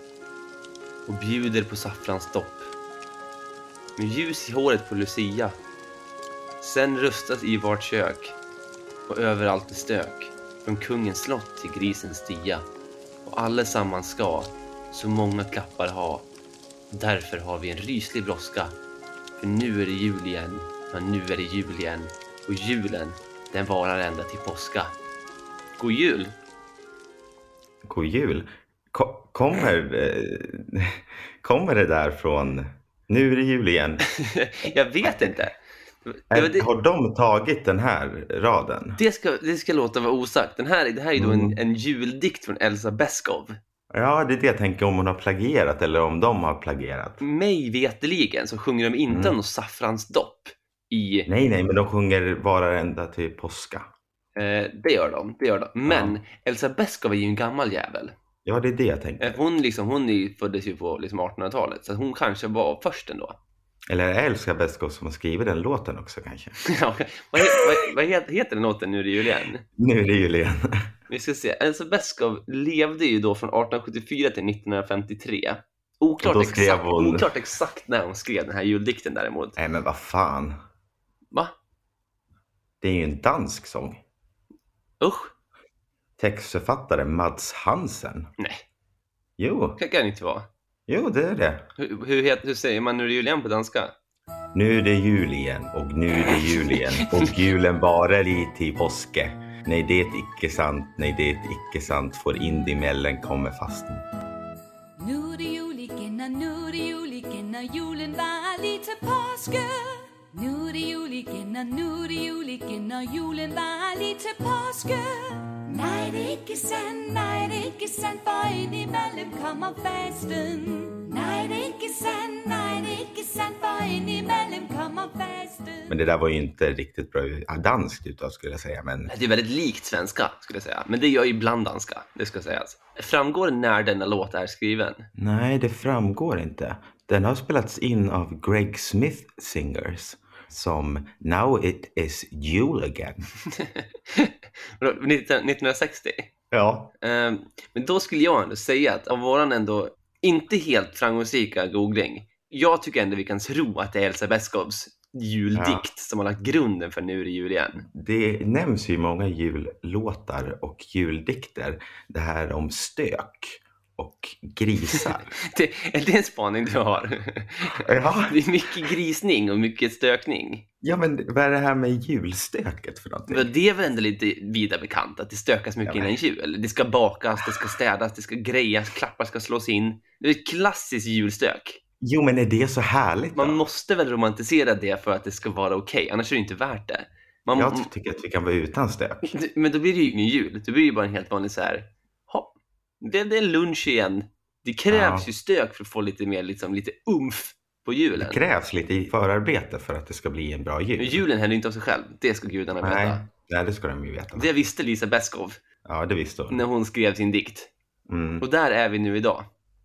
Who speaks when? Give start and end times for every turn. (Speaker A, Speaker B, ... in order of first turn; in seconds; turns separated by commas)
Speaker A: 1.1-2.7, Speaker A: 4.0-5.5, Speaker A: 6.6-8.3, Speaker A: 9.1-12.7, Speaker A: 13.2-16.2, Speaker A: 16.9-18.7, Speaker A: 19.4-24.9, Speaker A: 25.8-26.3, Speaker B: 27.8-34.0, Speaker A: 34.1-36.7, Speaker B: 35.0-35.3, Speaker B: 36.3-39.0, Speaker A: 39.0-43.6, Speaker B: 41.1-41.6, Speaker B: 43.9-47.2, Speaker A: 47.2-51.3, Speaker B: 49.1-49.4, Speaker B: 51.3-53.9, Speaker A: 54.4-58.1, Speaker B: 55.9-56.2, Speaker B: 58.4-59.4, Speaker A: 59.2-63.4, Speaker B: 63.9-66.6, Speaker A: 66.7-69.6, Speaker B: 67.4-67.6, Speaker B: 69.8-70.9, Speaker A: 71.1-79.6, Speaker B: 76.2-77.3, Speaker B: 79.6-80.6, Speaker B: 82.8-84.0, Speaker A: 85.0-85.3, Speaker B: 86.2-88.3, Speaker B: 89.4-89.8, Speaker A: 89.8-90.5, Speaker B: 90.9-91.7, Speaker A: 91.8-93.9, Speaker B: 94.5-104.0, Speaker A: 96.3-97.3, Speaker C: 105.0-125.9, Speaker B: 125.9-129.1, Speaker A: 129.1-135.1, Speaker B: 135.1-143.3, Speaker A: 143.5-146.3, Speaker B: 146.5-146.9, Speaker A: 147.0-157.8, Speaker B: 155.5-155.8, Speaker B: 157.8-165.3, Speaker A: 164.9-170.6, Speaker B: 167.8-168.8, Speaker B: 170.8-173.5, Speaker A: 173.3-181.8, Speaker B: 175.8-176.1, Speaker B: 182.0-183.6, Speaker A: 183.3-187.9, Speaker B: 187.6-189.3, Speaker A: 189.3-198.4, Speaker B: 194.9-195.3, Speaker B: 198.1-201.2, Speaker A: 201.0-203.2, Speaker B: 202.8-204.5, Speaker A: 204.3-205.6, Speaker B: 205.8-206.6, Speaker A: 206.5-207.7, Speaker B: 208.1-208.4, Speaker A: 208.4-209.5